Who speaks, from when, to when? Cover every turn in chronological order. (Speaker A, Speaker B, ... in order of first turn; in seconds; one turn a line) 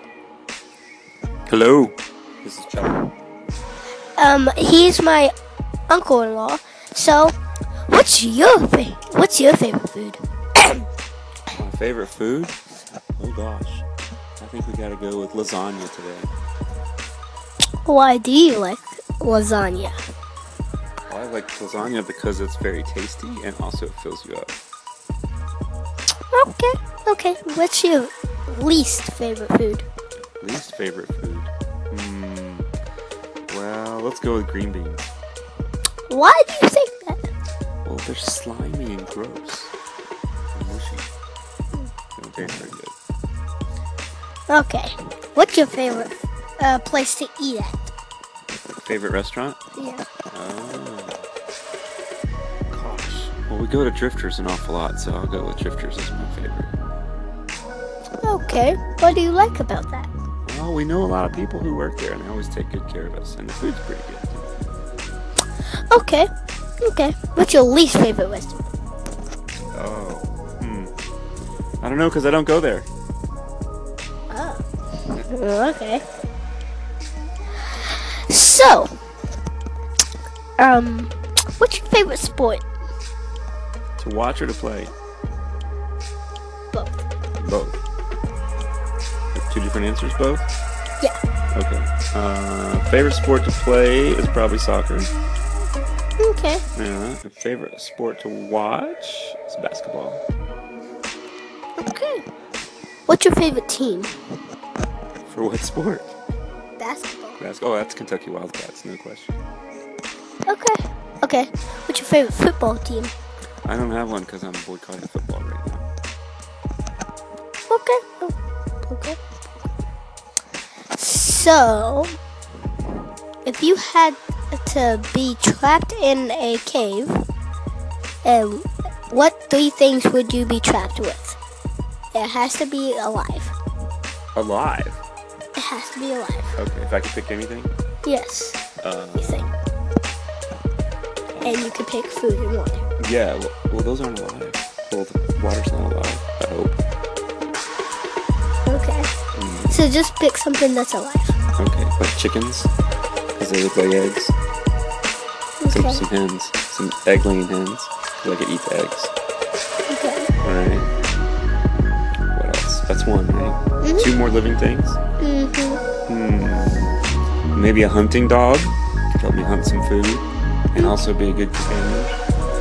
Speaker A: 1.5-3.1
Speaker B: 4.2-5.3
Speaker B: 5.9-7.3
Speaker B: 7.9-10.2
Speaker A: 11.5-12.6
Speaker A: 13.1-13.8
Speaker A: 14.4-16.3
Speaker B: 17.9-20.0
Speaker A: 21.1-24.6
Speaker B: 26.3-29.9
Speaker A: 30.4-32.7
Speaker A: 33.5-35.1
Speaker B: 36.1-37.2
Speaker A: 37.9-39.7
Speaker A: 40.5-41.1
Speaker A: 42.2-43.0
Speaker B: 44.5-47.9
Speaker A: 48.7-49.6
Speaker B: 49.8-50.0
Speaker A: 50.3-51.2
Speaker A: 52.7-56.8
Speaker B: 58.2-60.1
Speaker A: 60.5-64.5
Speaker B: 65.7-66.3
Speaker B: 66.8-68.7
Speaker A: 69.7-70.9
Speaker A: 71.8-72.9
Speaker B: 74.3-76.0
Speaker B: 77.8-79.0
Speaker B: 80.6-82.6
Speaker A: 84.0-84.9
Speaker A: 87.4-87.8
Speaker A: 89.3-90.5
Speaker A: 91.5-95.1
Speaker B: 96.2-96.7
Speaker A: 96.8-100.2
Speaker B: 101.8-102.2
Speaker B: 103.1-104.2
Speaker A: 105.2-106.1
Speaker B: 106.8-107.4
Speaker A: 107.4-109.4
Speaker B: 110.5-113.1
Speaker A: 113.7-115.8
Speaker B: 117.7-119.2
Speaker B: 120.9-122.2
Speaker B: 123.5-127.3
Speaker B: 128.2-131.4
Speaker B: 132.1-133.6
Speaker A: 134.3-135.0
Speaker B: 135.6-136.6
Speaker A: 136.6-137.7
Speaker B: 138.1-138.6
Speaker A: 138.8-139.6
Speaker B: 139.2-139.4
Speaker A: 141.3-141.7
Speaker B: 141.4-142.8
Speaker A: 143.0-146.8
Speaker B: 148.7-149.1
Speaker A: 149.3-149.8
Speaker B: 149.7-151.4
Speaker A: 151.6-152.7
Speaker A: 153.4-154.3
Speaker B: 155.6-156.0
Speaker A: 155.7-159.1
Speaker B: 159.9-160.3
Speaker A: 160.4-160.9
Speaker A: 162.3-165.0
Speaker B: 163.8-164.1
Speaker B: 165.2-165.8
Speaker A: 166.1-167.0
Speaker A: 167.5-172.2